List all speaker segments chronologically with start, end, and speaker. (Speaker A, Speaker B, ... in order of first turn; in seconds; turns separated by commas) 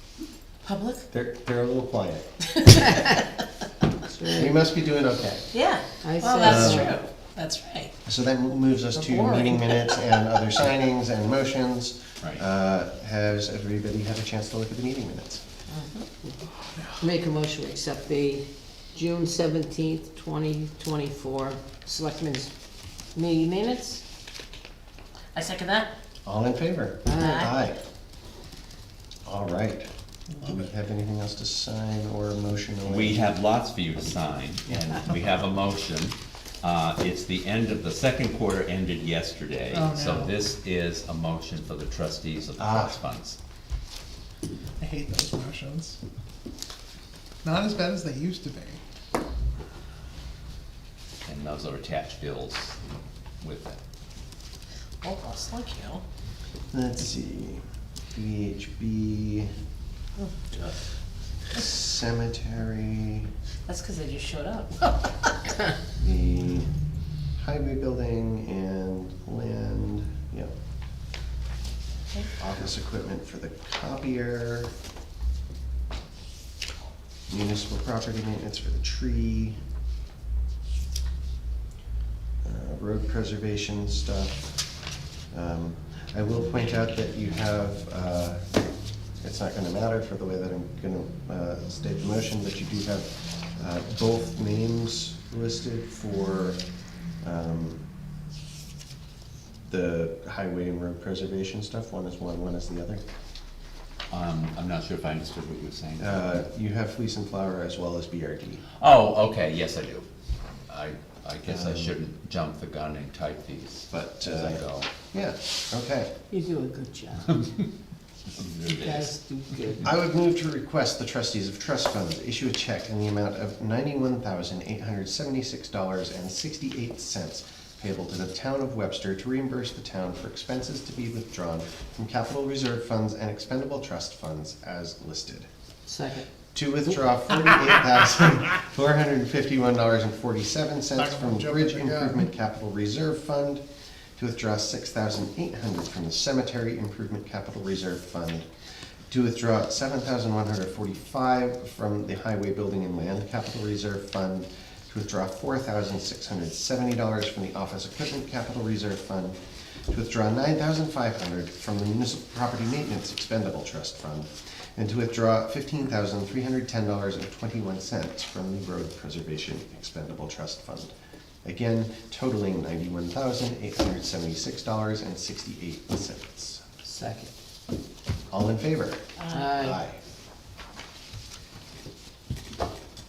Speaker A: 0.6-1.1, Speaker B: 1.1-2.2, Speaker A: 2.6-3.2, Speaker C: 4.1-4.6, Speaker B: 4.3-5.5, Speaker A: 5.5-7.9, Speaker C: 6.0-7.0, Speaker B: 6.4-6.9, Speaker B: 8.1-15.4, Speaker A: 9.1-10.1, Speaker A: 15.7-16.1, Speaker C: 17.0-22.5, Speaker C: 23.1-24.0, Speaker A: 25.4-25.9, Speaker B: 26.2-27.8, Speaker C: 27.1-27.4, Speaker A: 27.2-27.5, Speaker B: 29.2-29.9, Speaker B: 30.4-33.2, Speaker D: 32.8-43.4, Speaker E: 39.7-40.3, Speaker B: 42.6-43.0, Speaker E: 44.8-46.0, Speaker E: 47.4-48.8, Speaker D: 51.2-52.8, Speaker D: 53.4-53.8, Speaker A: 55.0-56.0, Speaker B: 56.7-57.6, Speaker B: 58.1-59.5, Speaker A: 60.2-60.8, Speaker B: 61.5-63.3, Speaker A: 63.7-65.5, Speaker B: 66.0-66.7, Speaker B: 67.4-70.5, Speaker B: 72.4-74.7, Speaker B: 77.3-79.6, Speaker B: 82.4-84.5, Speaker B: 85.3-88.5, Speaker B: 89.2-96.6, Speaker B: 97.2-97.8, Speaker B: 99.7-103.0, Speaker D: 104.1-106.5, Speaker B: 106.0-108.6, Speaker D: 108.8-110.1, Speaker D: 110.7-114.9, Speaker B: 111.5-112.0, Speaker B: 113.9-116.1, Speaker C: 116.3-117.3, Speaker D: 118.3-119.1, Speaker C: 118.7-119.9, Speaker B: 119.8-135.5, Speaker C: 135.9-136.3, Speaker B: 136.5-143.6, Speaker E: 141.0-142.1, Speaker B: 144.2-148.5, Speaker B: 149.1-170.9, Speaker B: 171.4-176.6, Speaker C: 176.8-177.3, Speaker B: 178.3-179.0, Speaker A: 179.2-179.6, Speaker C: 179.3-179.8, Speaker B: 179.6-180.0